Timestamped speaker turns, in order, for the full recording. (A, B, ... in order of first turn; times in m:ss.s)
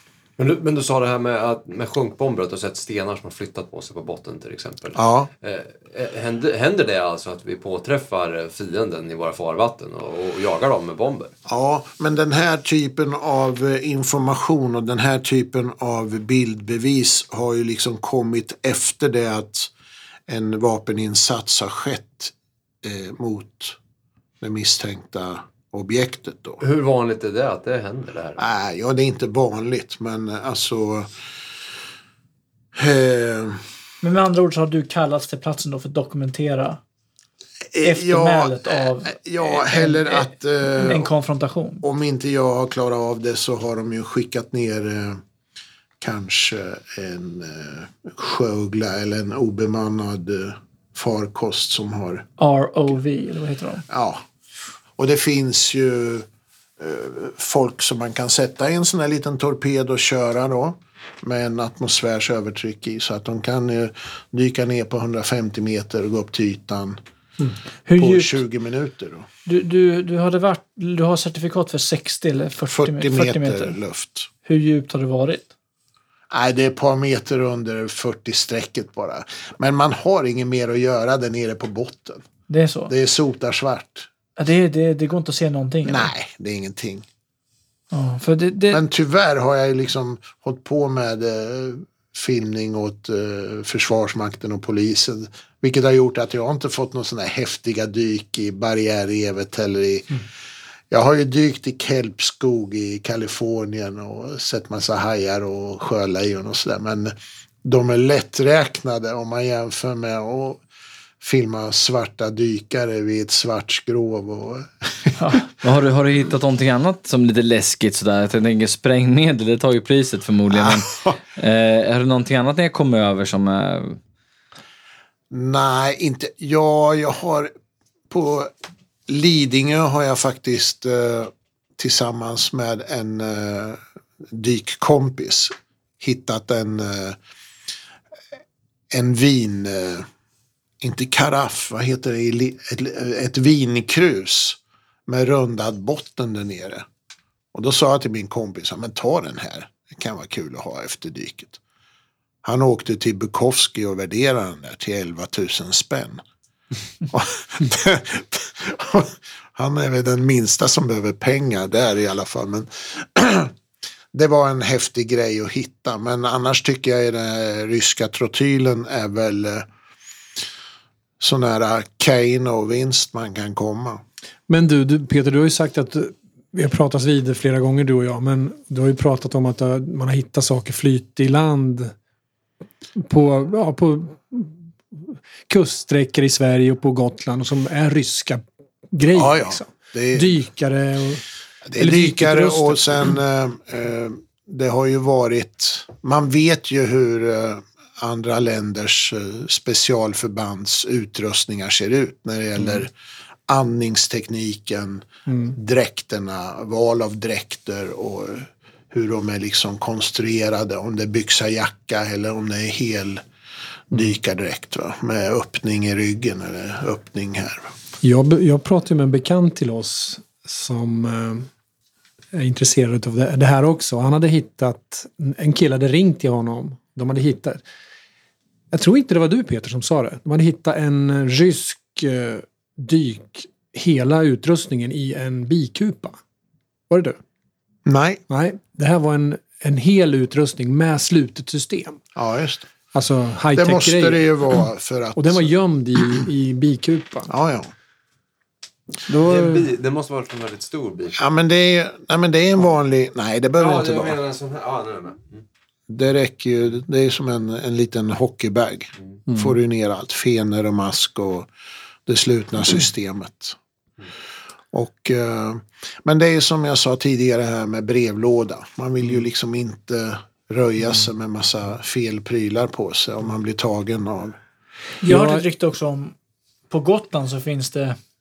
0:00.4-0:11.3 A
0:05.0-0:05.3 B
0:11.5-0:19.7 B
0:20.3-0:23.8 B
0:24.4-0:26.6 B
0:26.6-0:28.4 A
0:28.4-0:31.2 B
0:32.7-0:33.6 B
0:34.0-0:36.8 C
0:37.7-0:41.1 B
0:37.8-0:41.8 C
0:41.8-0:45.2 B
0:46.0-0:52.2 B
0:52.4-0:53.8 C
0:53.9-0:54.2 B
0:55.0-0:56.3 B
0:56.8-1:07.0 B
1:07.8-1:08.4 C
1:07.9-1:09.3 B
1:09.4-1:13.8 C
1:12.7-1:14.3 B
1:14.4-1:15.5 C
1:16.3-1:22.2 B
1:22.5-1:22.9 C
1:22.9-1:24.1 B
1:24.4-1:26.1 C
1:25.8-1:27.0 B
1:27.9-1:28.8 C
1:28.7-1:40.2 B
1:40.9-1:50.6 B
1:51.2-1:55.2 B
1:55.2-1:55.4 C
1:55.6-2:04.0 D
2:00.5-2:01.2 B
2:05.3-2:07.5 B
2:08.1-2:08.5 B
2:09.1-2:13.8 B
2:14.3-2:17.2 B
2:18.9-2:20.1 B
2:20.8-2:26.8 B
2:27.5-2:31.6 B
2:32.4-2:36.2 B
2:37.1-2:43.5 B
2:44.1-2:49.6 B
2:51.2-2:54.0 B
2:54.5-3:01.9 E
3:02.9-3:11.2 E
3:09.1-3:10.4 B
3:11.6-3:22.9 B
3:11.8-3:13.1 E
3:23.5-3:33.2 B
3:25.3-3:25.5 E
3:33.9-3:37.7 B
3:38.0-3:41.5 E
3:42.3-3:47.6 E
3:48.7-3:56.2 E
3:56.9-3:57.2 E
3:57.8-3:58.2 B
3:58.3-4:02.0 E
4:02.2-4:02.6 B
4:02.9-4:04.2 E
4:03.6-4:05.4 B
4:05.2-4:07.3 E
4:07.3-4:07.7 B
4:09.1-4:11.2 A
4:09.3-4:09.6 B
4:11.2-4:14.2 B
4:13.6-4:15.4 A
4:15.9-4:21.5 B
4:19.3-4:19.6 E
4:22.1-4:23.6 B
4:24.7-4:34.4 B
4:35.0-4:35.4 E
4:35.0-4:36.1 C
4:36.7-4:38.0 C